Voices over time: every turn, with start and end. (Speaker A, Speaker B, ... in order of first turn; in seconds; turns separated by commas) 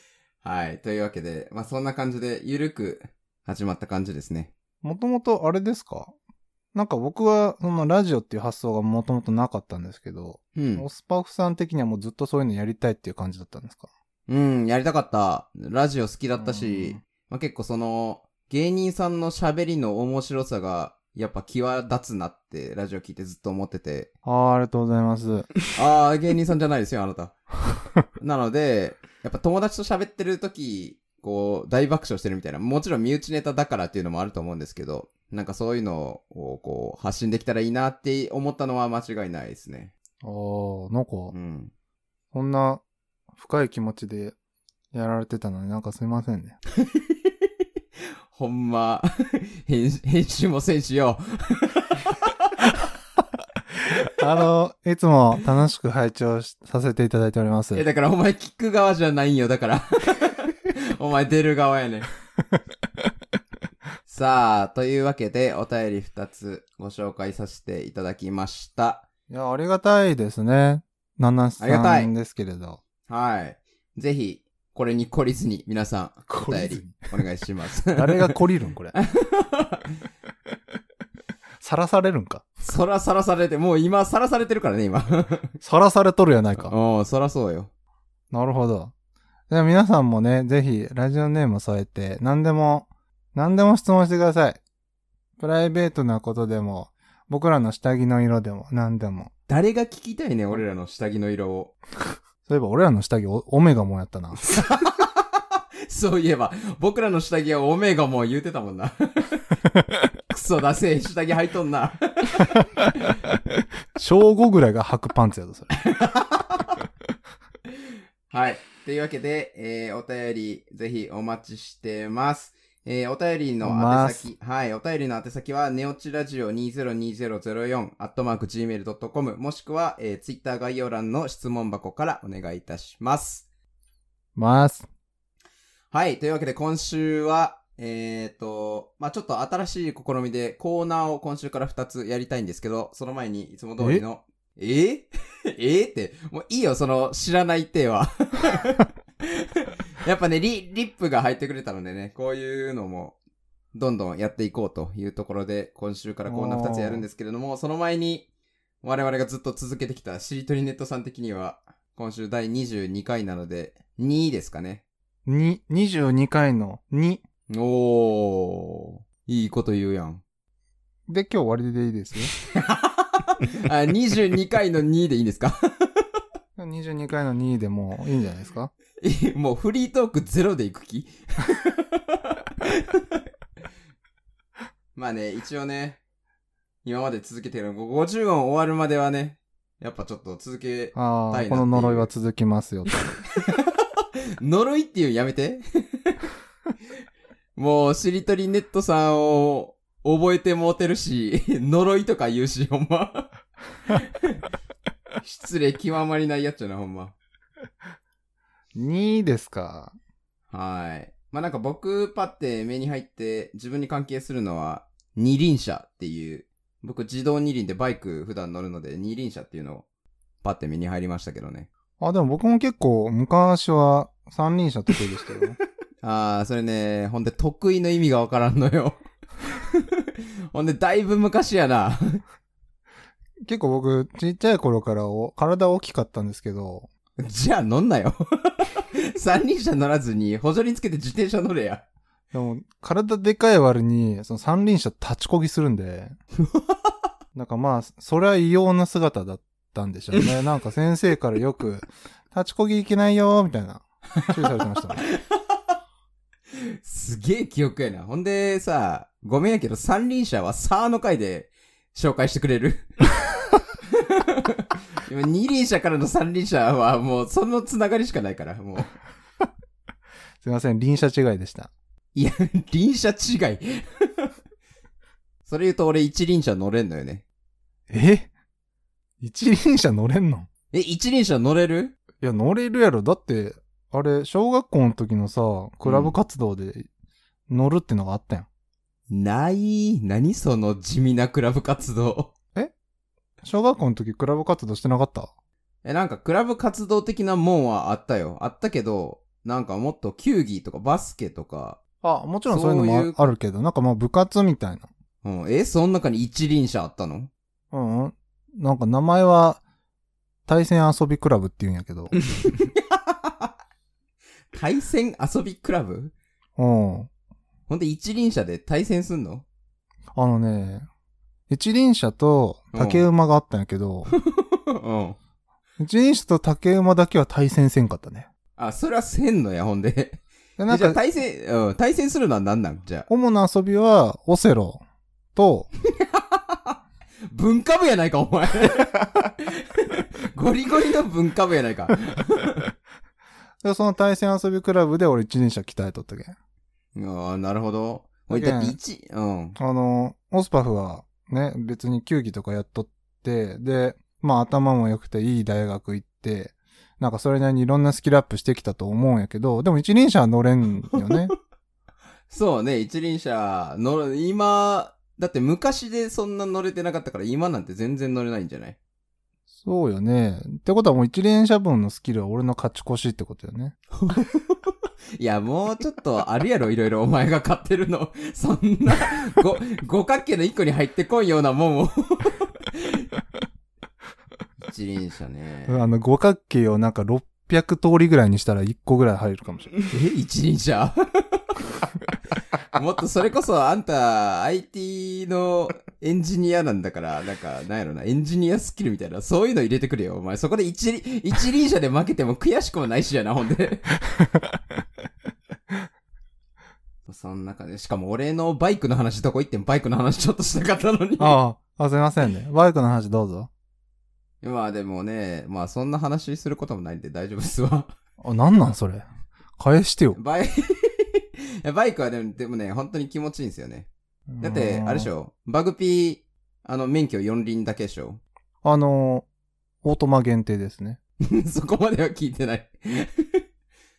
Speaker A: 0.4-4.5, Speaker B: 4.8-6.1, Speaker B: 6.7-13.9, Speaker A: 10.6-10.9, Speaker A: 14.3-24.1, Speaker B: 16.4-17.0, Speaker B: 24.2-25.5, Speaker A: 25.7-27.4, Speaker A: 28.2-39.9, Speaker B: 40.2-41.3, Speaker A: 41.3-41.7, Speaker B: 42.3-42.8, Speaker B: 43.4-44.4, Speaker B: 44.9-46.6, Speaker A: 46.8-47.1, Speaker A: 48.3-52.3, Speaker B: 54.1-57.8, Speaker A: 57.7-62.1, Speaker A: 64.1-69.1, Speaker B: 69.3-72.8, Speaker A: 71.6-72.1, Speaker A: 73.1-78.4, Speaker B: 76.3-77.1, Speaker B: 77.9-78.9, Speaker A: 78.9-79.9, Speaker B: 81.6-82.4, Speaker A: 82.6-85.5, Speaker B: 85.6-86.7, Speaker A: 86.6-87.7, Speaker B: 88.3-88.9, Speaker B: 89.5-94.6, Speaker B: 95.4-99.3, Speaker A: 99.5-101.7, Speaker B: 102.5-104.4, Speaker A: 104.6-105.1, Speaker A: 105.9-109.4, Speaker A: 110.3-112.5, Speaker B: 114.0-115.7, Speaker A: 115.8-116.7, Speaker A: 118.3-133.5, Speaker B: 123.6-124.3, Speaker B: 134.4-134.9, Speaker A: 135.9-153.2, Speaker A: 153.7-158.3, Speaker B: 156.3-157.1, Speaker A: 158.8-164.8, Speaker B: 165.3-167.2, Speaker A: 167.5-170.2, Speaker B: 171.1-172.3, Speaker A: 172.5-176.0, Speaker B: 176.6-178.7, Speaker A: 179.0-183.2, Speaker A: 184.9-186.0, Speaker A: 186.8-192.1, Speaker B: 190.9-192.9, Speaker A: 193.4-193.7, Speaker A: 194.4-196.2, Speaker A: 197.6-203.3, Speaker A: 205.2-207.2, Speaker B: 208.8-209.9, Speaker A: 210.5-219.8, Speaker A: 220.4-221.7, Speaker B: 222.0-225.6, Speaker A: 226.0-229.9, Speaker A: 230.5-232.2, Speaker B: 233.4-236.9, Speaker A: 237.2-241.8, Speaker B: 242.3-246.2, Speaker B: 247.3-255.0, Speaker A: 256.8-262.9, Speaker A: 264.1-268.9, Speaker B: 270.4-271.7, Speaker A: 272.1-274.3, Speaker A: 275.4-277.2, Speaker B: 277.9-278.3, Speaker B: 279.2-280.5, Speaker A: 280.7-281.9, Speaker B: 282.2-286.9, Speaker A: 285.8-286.1, Speaker B: 287.5-288.5, Speaker A: 289.1-292.3, Speaker B: 293.4-295.3, Speaker A: 295.8-301.8, Speaker B: 302.0-304.9, Speaker A: 302.5-303.2, Speaker A: 305.2-307.3, Speaker B: 307.7-309.6, Speaker B: 310.5-312.1, Speaker A: 312.6-313.5, Speaker A: 314.5-316.1, Speaker B: 316.6-317.1, Speaker A: 317.7-319.4, Speaker B: 320.1-320.9, Speaker B: 321.5-324.1, Speaker A: 322.7-323.1, Speaker A: 324.2-325.2, Speaker B: 325.8-328.3, Speaker A: 328.6-333.1, Speaker B: 330.6-331.0, Speaker B: 333.1-334.8, Speaker B: 335.3-335.7, Speaker A: 336.0-336.8, Speaker A: 337.3-342.7, Speaker B: 343.6-346.4, Speaker A: 346.9-349.6, Speaker B: 348.3-348.8, Speaker B: 349.6-361.3, Speaker A: 362.3-368.8, Speaker B: 369.6-373.8, Speaker A: 374.0-374.6, Speaker A: 375.2-383.1, Speaker A: 384.6-385.8, Speaker B: 385.7-389.7, Speaker A: 389.9-391.4, Speaker A: 392.7-403.9, Speaker A: 407.1-411.4, Speaker B: 411.2-413.5, Speaker A: 414.4-417.9, Speaker B: 418.2-420.2, Speaker A: 420.1-423.9, Speaker B: 424.3-425.1, Speaker A: 424.4-428.2, Speaker B: 428.6-429.3, Speaker B: 429.8-431.0, Speaker A: 431.2-433.4